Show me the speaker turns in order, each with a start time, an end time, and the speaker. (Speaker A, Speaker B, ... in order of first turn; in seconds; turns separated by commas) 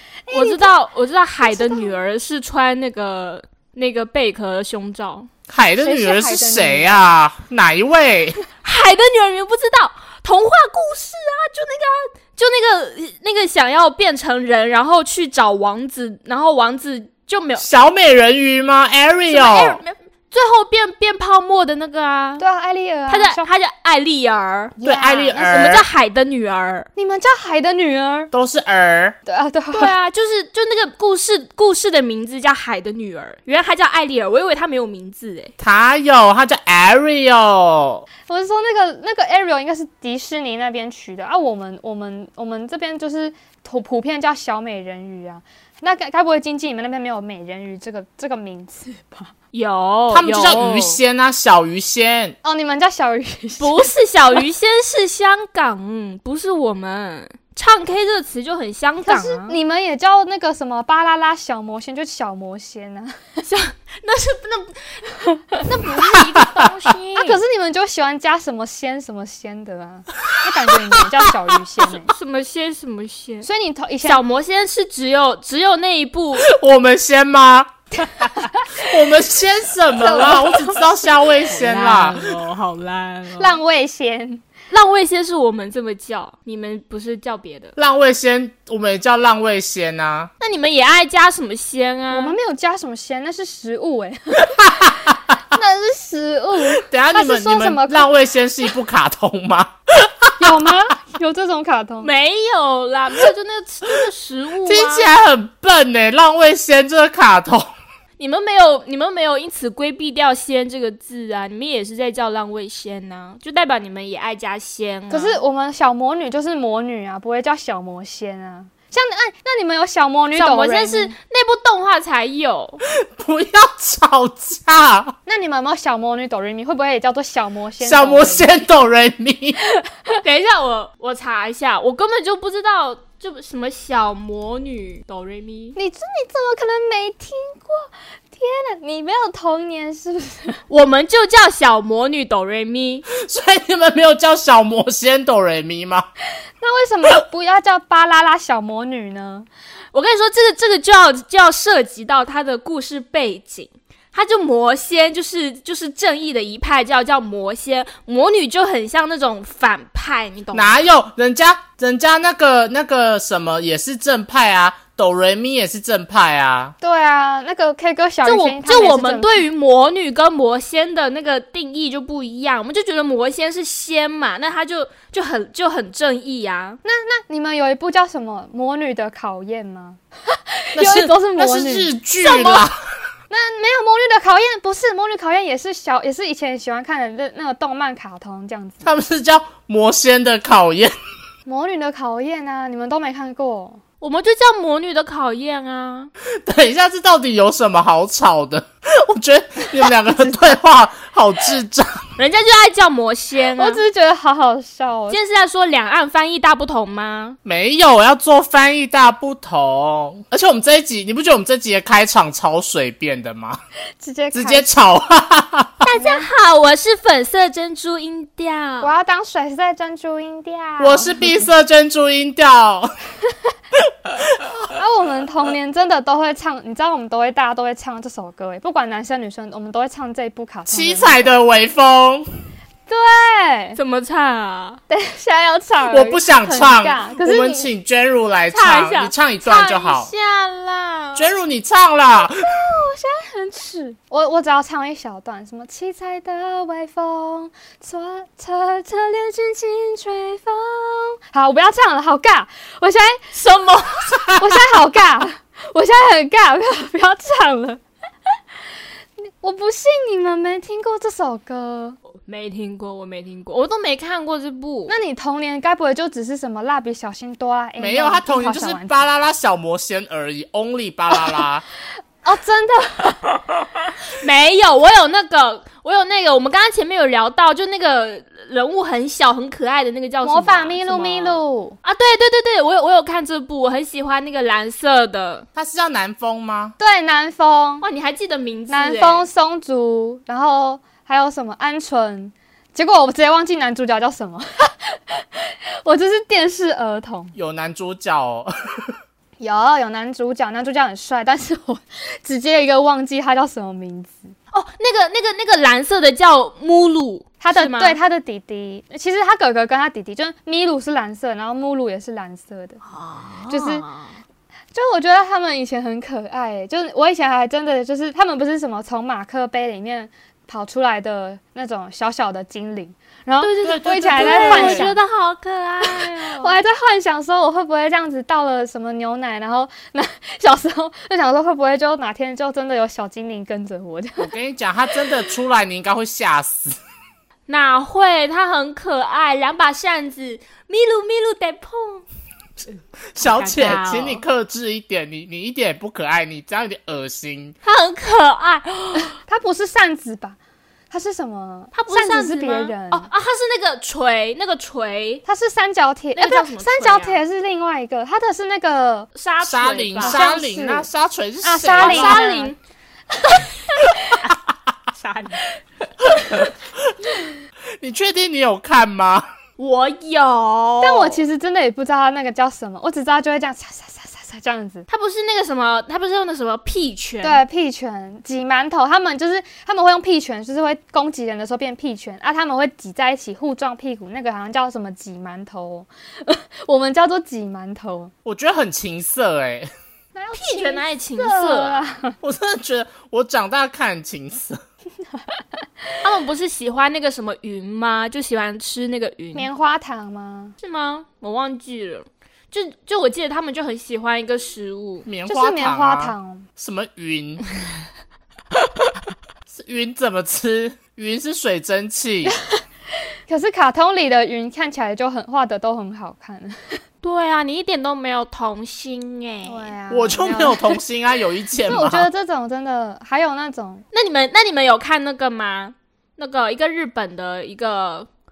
Speaker A: 0.2-0.7, Speaker B: 0.3-5.3, Speaker A: 1.4-1.9, Speaker C: 5.5-8.4, Speaker A: 5.8-7.1, Speaker B: 8.6-17.6, Speaker C: 17.6-19.8, Speaker B: 19.3-22.4, Speaker A: 22.4-23.5, Speaker B: 23.1-24.8, Speaker A: 24.8-25.7, Speaker C: 24.8-25.9, Speaker B: 25.5-26.9, Speaker A: 26.9-28.3, Speaker C: 28.3-29.2, Speaker A: 29.2-29.9, Speaker B: 29.7-35.5, Speaker C: 35.6-38.0, Speaker A: 38.3-49.3, Speaker B: 49.5-51.0, Speaker C: 50.1-52.4, Speaker A: 52.4-53.9, Speaker B: 53.6-59.5, Speaker A: 59.0-63.4, Speaker B: 63.5-67.4, Speaker C: 66.4-66.6, Speaker A: 67.1-72.1, Speaker B: 71.9-73.5, Speaker A: 73.4-74.2, Speaker B: 74.0-76.5, Speaker C: 76.3-82.2, Speaker A: 78.2-78.8, Speaker A: 79.9-80.9, Speaker B: 81.4-83.6, Speaker A: 83.4-84.4, Speaker B: 84.7-87.7, Speaker C: 87.8-90.3, Speaker B: 90.4-92.3, Speaker A: 92.1-98.1, Speaker C: 96.8-100.5, Speaker A: 100.4-102.1, Speaker B: 102.0-105.1, Speaker C: 104.6-107.7, Speaker B: 108.2-115.4, Speaker A: 115.1-121.1, Speaker B: 120.3-122.8, Speaker C: 122.9-125.1, Speaker A: 125.2-128.5, Speaker C: 127.8-129.6, Speaker B: 130.2-135.8, Speaker A: 135.8-140.6, Speaker B: 140.7-143.1, Speaker C: 143.1-146.1, Speaker A: 146.6-149.5, Speaker B: 149.9-160.8, Speaker C: 160.5-166.7, Speaker A: 166.8-169.4, Speaker B: 168.2-176.8, Speaker A: 176.8-182.6, Speaker C: 180.8-182.7, Speaker A: 183.3-188.9, Speaker C: 188.8-190.9, Speaker A: 191.4-193.8, Speaker B: 194.0-196.1, Speaker C: 196.4-202.0, Speaker A: 200.1-200.5, Speaker B: 202.2-203.8, Speaker A: 203.6-205.2, Speaker B: 205.1-207.4, Speaker C: 207.4-213.6, Speaker A: 214.0-214.7, Speaker C: 214.3-215.8, Speaker B: 215.8-218.9, Speaker A: 215.9-216.3, Speaker A: 218.8-221.4, Speaker C: 220.8-222.9, Speaker C: 223.8-224.1, Speaker A: 224.6-231.3, Speaker C: 230.7-232.3, Speaker A: 232.9-233.8, Speaker B: 233.8-234.8, Speaker A: 234.9-237.7, Speaker C: 235.9-240.1, Speaker B: 238.5-241.3, Speaker C: 241.1-242.4, Speaker A: 242.4-253.2, Speaker B: 253.3-254.4, Speaker A: 254.3-257.8, Speaker A: 259.2-262.0, Speaker B: 262.2-264.9, Speaker A: 264.9-269.0, Speaker C: 267.8-271.6, Speaker A: 272.2-273.2, Speaker B: 274.1-285.4, Speaker A: 280.2-281.8, Speaker C: 285.5-286.8, Speaker A: 286.8-287.9, Speaker B: 287.8-289.3, Speaker A: 288.7-297.3, Speaker C: 297.3-298.9, Speaker A: 299.4-304.3, Speaker B: 304.5-308.0, Speaker A: 307.4-312.8, Speaker B: 312.8-314.2, Speaker A: 313.5-313.9, Speaker A: 314.7-324.9, Speaker B: 323.4-326.6, Speaker C: 323.6-324.9, Speaker A: 325.8-334.3, Speaker C: 334.2-336.8, Speaker B: 337.5-342.0, Speaker C: 343.1-347.5, Speaker B: 343.2-344.2, Speaker B: 347.6-349.1, Speaker A: 349.2-350.4, Speaker A: 350.9-353.1, Speaker B: 351.7-355.2, Speaker A: 355.2-359.1, Speaker B: 356.1-357.2, Speaker B: 359.1-360.3, Speaker C: 359.4-362.2, Speaker A: 360.0-360.9, Speaker A: 361.4-362.5, Speaker B: 361.8-362.6, Speaker A: 363.3-364.2, Speaker B: 363.8-364.3, Speaker B: 364.9-365.5, Speaker C: 366.1-367.1, Speaker C: 367.8-369.3, Speaker B: 369.6-371.2, Speaker A: 370.8-374.9, Speaker B: 374.9-377.4, Speaker A: 377.2-388.1, Speaker C: 388.2-389.7, Speaker A: 390.1-392.2, Speaker B: 390.3-391.9, Speaker C: 392.2-394.6, Speaker B: 396.0-399.5, Speaker A: 399.3-400.5, Speaker B: 400.6-405.1, Speaker C: 405.1-407.4, Speaker A: 405.2-406.5, Speaker C: 409.5-412.3, Speaker A: 413.3-416.8, Speaker B: 417.0-419.7, Speaker A: 419.4-420.8, Speaker C: 419.9-422.1, Speaker A: 421.6-423.8, Speaker B: 423.9-428.1